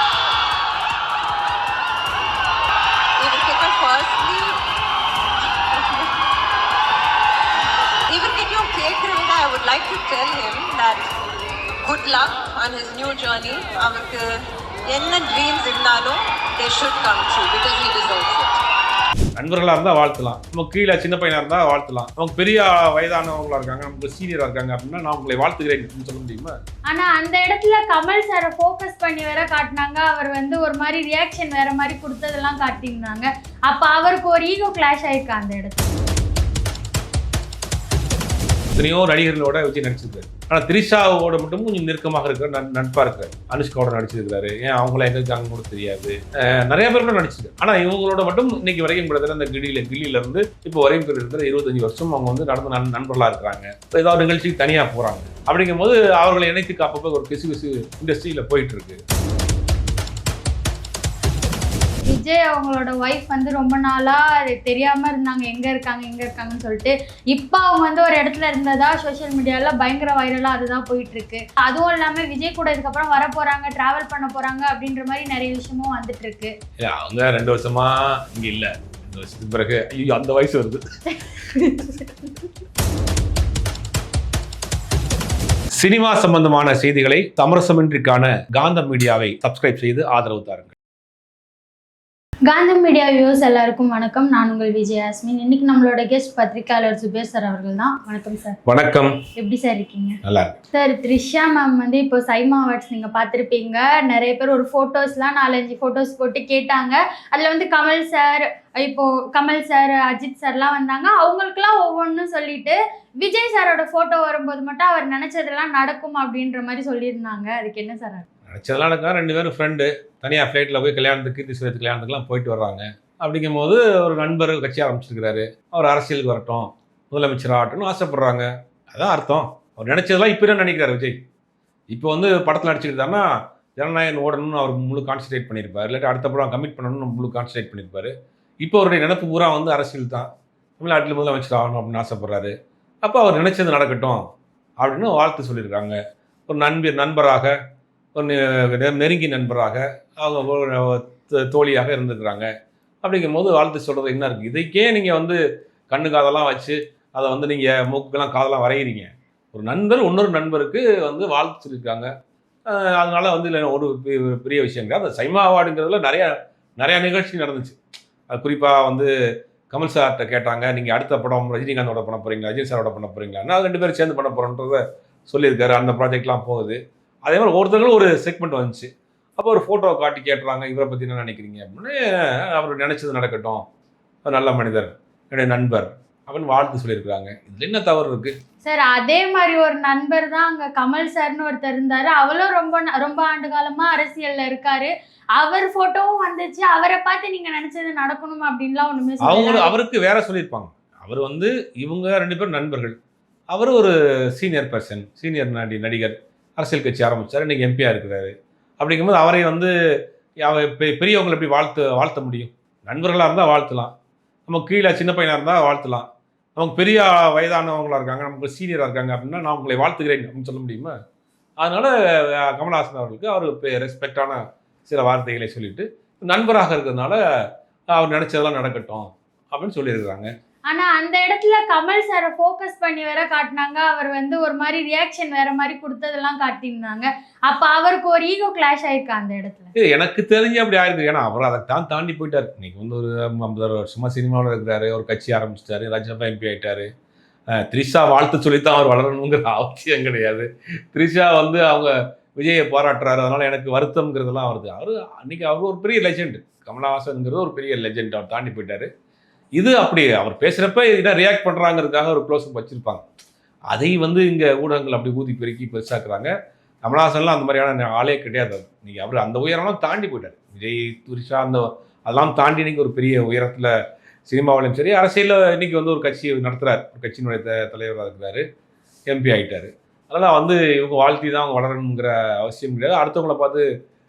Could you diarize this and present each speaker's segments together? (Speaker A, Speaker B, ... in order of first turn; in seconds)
Speaker A: 3.2-4.6, 5.7-6.1, 8.1-11.1, 11.8-18.5
Speaker B: 19.4-26.5, 38.7-59.0, 76.8-80.8, 85.7-90.7, 98.7-99.1, 100.2-100.6, 118.5-131.2, 131.9-144.2, 144.8-147.5, 148.1-152.5, 153.0-155.4, 155.9-162.1, 162.7-167.8, 168.3-169.1, 169.7-183.6, 184.2-188.3, 199.2-202.9, 203.5-209.7, 210.4-213.9, 214.5-220.9, 221.6-227.2, 227.9-230.3, 239.8-246.9, 247.6-258.9, 259.6-263.0, 263.7-266.3, 266.8-273.7, 274.3-278.4, 279.1-283.6
Speaker C: 26.9-35.9, 62.0-76.5, 81.3-82.2, 92.5-98.6, 99.3-100.2, 100.7-118.2, 188.6-199.7, 230.7-239.7